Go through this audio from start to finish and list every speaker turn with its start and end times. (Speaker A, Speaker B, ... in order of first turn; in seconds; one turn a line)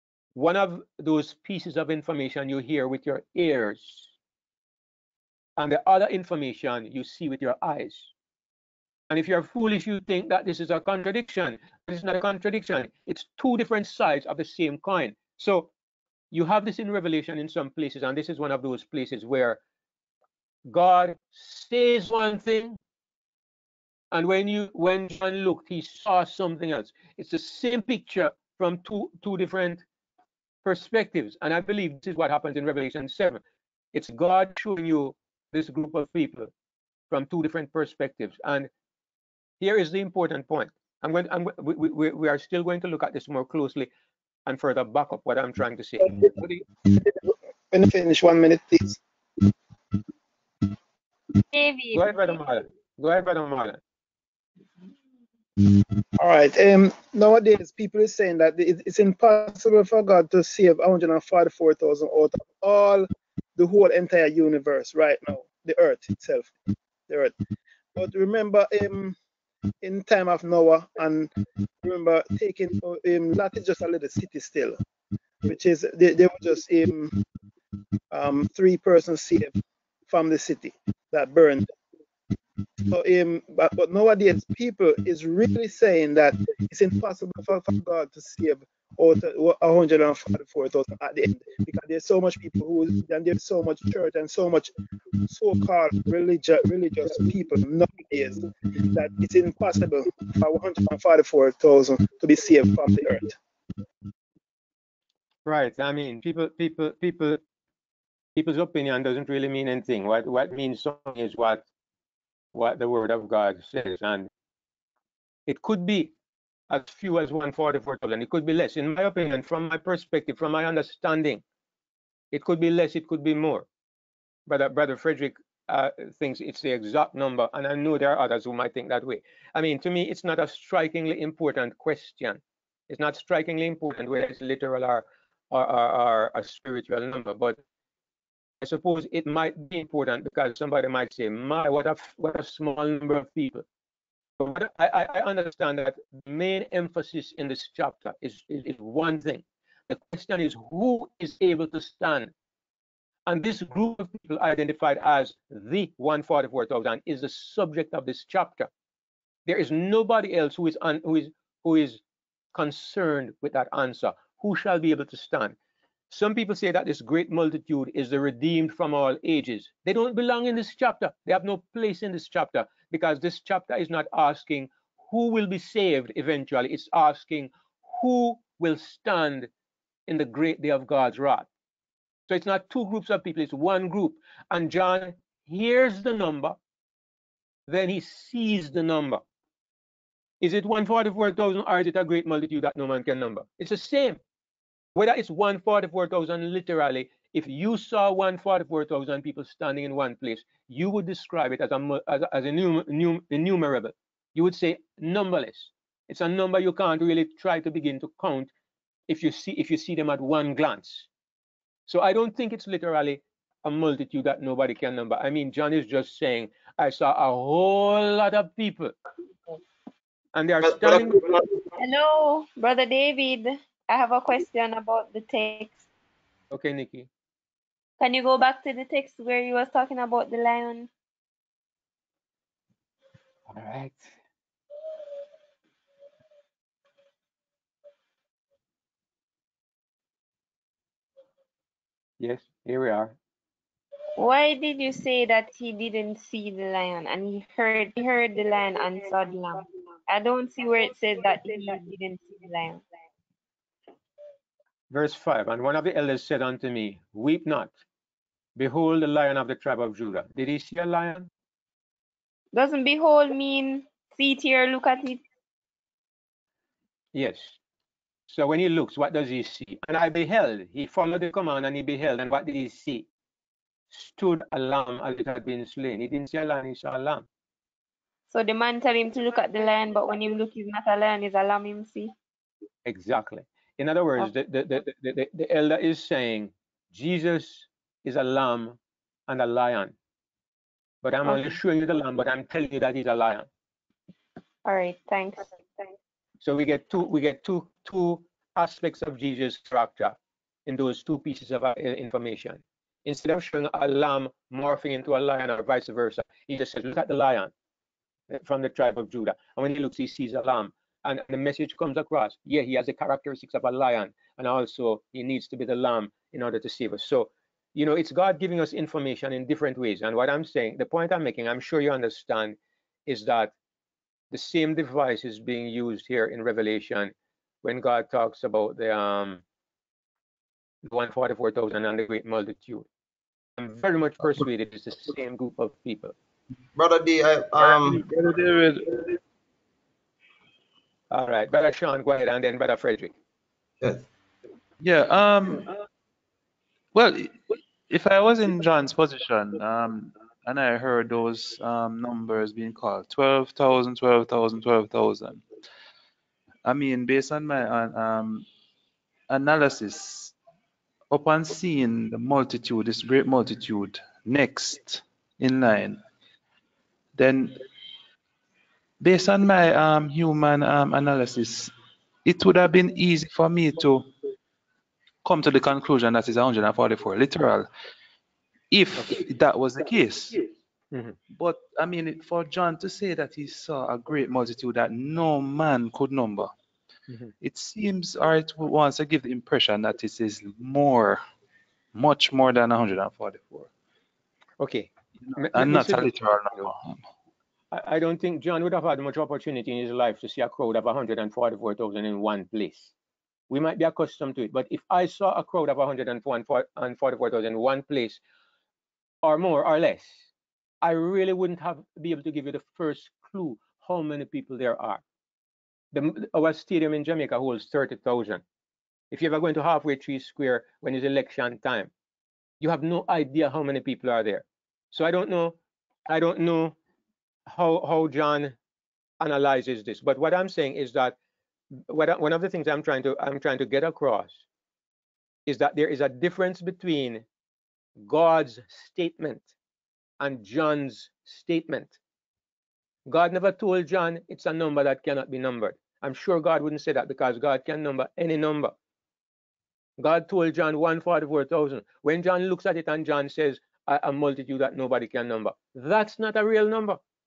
Speaker A: 0.3-4.1
Speaker A: 5.6-8.1
Speaker A: 9.1-15.7
Speaker A: 16.3-19.6
Speaker A: 20.6-22.8
Speaker A: 24.1-29.8
Speaker A: 30.6-33.4
Speaker A: 33.9-36.5
Speaker A: 37.1-38.7
Speaker A: 39.6-43.9
Speaker A: 44.5-46.2
Speaker B: 46.0-49.0
Speaker C: 51.5-52.2
Speaker A: 51.9-53.8
Speaker B: 55.6-66.5
Speaker B: 67.1-67.3
Speaker B: 68.0-69.2
Speaker B: 69.8-71.3
Speaker B: 71.8-74.8
Speaker B: 75.5-77.2
Speaker B: 78.1-79.5
Speaker B: 80.1-81.7
Speaker B: 82.8-94.7
Speaker B: 95.3-103.4
Speaker A: 105.5-107.4
Speaker A: 108.3-111.6
Speaker A: 112.5-114.3
Speaker A: 115.5-116.1
Speaker A: 116.7-121.4
Speaker A: 122.3-123.7
Speaker A: 124.5-137.6
Speaker A: 138.6-143.6
Speaker A: 144.4-152.3
Speaker A: 153.2-158.7
Speaker A: 159.4-162.0
Speaker A: 162.5-165.5
Speaker A: 166.1-179.5
Speaker A: 180.1-181.5
Speaker A: 182.3-186.6
Speaker A: 187.7-189.2
Speaker A: 190.4-194.2
Speaker A: 194.9-208.5
Speaker A: 209.1-211.1
Speaker A: 211.9-218.9
Speaker A: 220.3-221.2
Speaker D: 220.6-221.6
Speaker C: 221.8-225.8
Speaker A: 226.5-227.1
Speaker C: 228.0-230.9
Speaker A: 233.5-234.1
Speaker A: 242.2-243.1
Speaker C: 244.2-252.8
Speaker A: 254.9-257.7
Speaker A: 258.6-261.3
Speaker C: 262.5-265.2
Speaker A: 267.1-267.6
Speaker A: 268.3-273.1
Speaker A: 273.9-277.3
Speaker C: 278.3-282.1
Speaker A: 282.8-289.9
Speaker A: 291.0-293.5
Speaker C: 294.6-295.9
Speaker A: 296.4-307.5
Speaker A: 308.3-323.5
Speaker A: 324.3-329.4
Speaker A: 330.8-332.9
Speaker A: 333.6-336.1
Speaker D: 336.7-338.0
Speaker E: 337.6-339.1
Speaker A: 341.1-343.1
Speaker E: 344.8-345.7
Speaker E: 346.9-355.4
Speaker E: 356.6-358.5
Speaker E: 359.3-360.3
Speaker E: 361.1-366.0
Speaker E: 367.1-367.6
Speaker E: 369.0-371.7
Speaker E: 372.2-374.1
Speaker E: 375.2-377.7
Speaker E: 378.7-380.4
Speaker E: 381.4-386.5
Speaker E: 387.4-391.2
Speaker E: 391.9-393.7
Speaker A: 394.6-396.7
Speaker E: 395.2-397.0
Speaker A: 397.7-402.9
Speaker A: 403.5-408.2
Speaker A: 409.2-410.3
Speaker A: 410.8-415.0
Speaker A: 415.9-418.4
Speaker A: 419.1-421.9
Speaker A: 422.6-425.6
Speaker A: 426.1-426.8
Speaker A: 427.5-428.6
Speaker A: 429.2-431.1
Speaker A: 431.9-434.4
Speaker A: 435.4-437.2
Speaker A: 438.0-439.5
Speaker A: 440.2-442.0
Speaker A: 443.1-448.7
Speaker A: 450.0-457.0